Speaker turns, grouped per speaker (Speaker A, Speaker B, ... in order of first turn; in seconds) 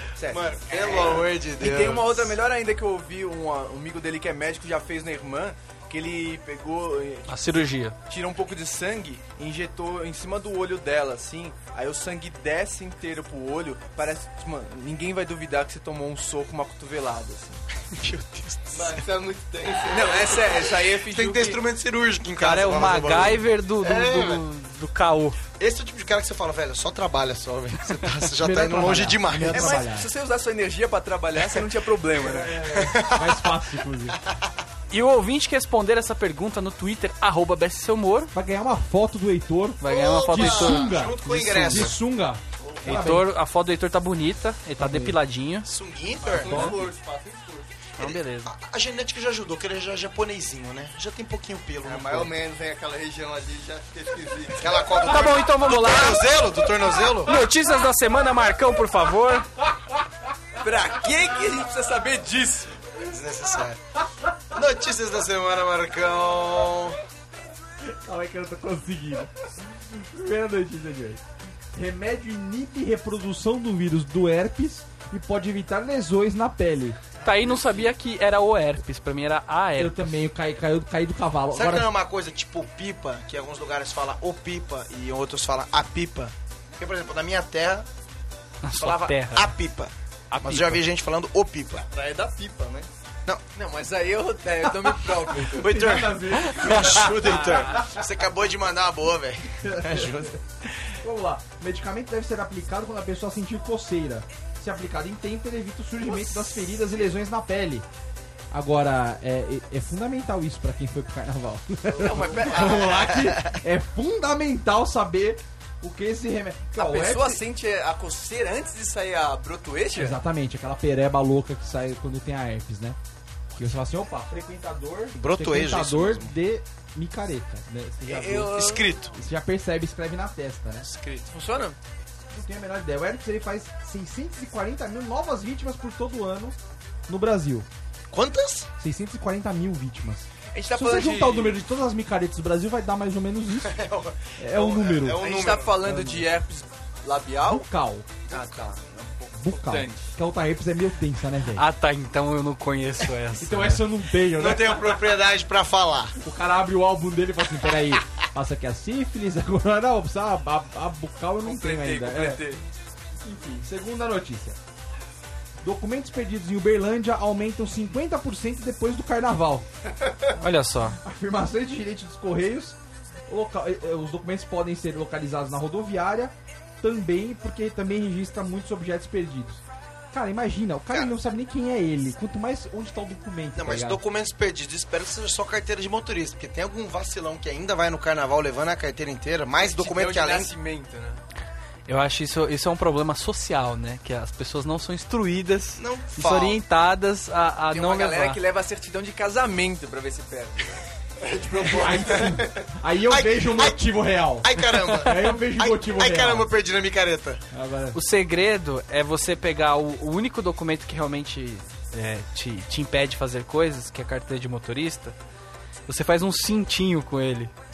Speaker A: 0.1-17.6, 19.9-21.6, 29.5-32.6, 60.6-62.8, 93.5-95.7, 111.9-113.0, 116.7-120.2, 128.1-128.9, 131.2-131.8, 140.5-141.6, 145.2-147.7, 148.3-150.1, 161.4-162.6, 189.6-191.2, 197.7-200.8
Speaker B: 0.3-2.3, 17.9-19.0, 21.1-24.4, 25.6-29.8, 32.7-33.5, 34.2-34.5, 39.8-42.0, 45.6-46.8, 48.0-52.3, 54.6-57.4, 63.0-63.8, 64.5-67.0, 81.5-87.9, 88.8-91.8, 95.5-100.3, 113.2-113.5, 125.2-126.3, 128.4-129.1, 130.8-131.3, 138.1-138.7, 143.6-145.8, 154.3-156.2, 183.6-190.5, 195.8-196.6, 203.1-203.8, 204.4-207.4
Speaker C: 7.3-8.0, 22.4-25.4, 34.9-38.3, 39.8-40.9, 42.8-45.7, 46.4-46.8, 48.0-48.5, 54.9-56.4, 57.0-59.5, 77.2-80.0, 88.6-89.5, 90.3-90.8, 96.6-97.1, 151.6-153.8, 170.3-171.0, 191.9-198.4, 207.9-215.2, 215.9-217.5
Speaker D: 18.7-20.7, 42.6-43.0, 46.2-47.7, 51.8-54.8, 91.9-92.9, 112.0-113.1, 201.2-202.3
Speaker E: 28.2-30.1, 32.2-34.2, 38.3-43.3, 44.8-45.1, 67.8-69.3, 69.9-71.2, 71.7-77.0, 79.8-81.9, 95.2-97.9, 99.5-100.3, 101.0-107.9, 108.5-117.4, 119.9-123.0, 123.6-130.9, 132.3-137.7, 138.8-143.8, 144.4-145.2, 145.8-146.3, 147.4-148.1, 149.3-151.7, 153.4-155.1, 156.2-162.4, 163.2-164.6, 165.6-169.7, 171.0-184.0, 201.5-206.5, 207.5-208.0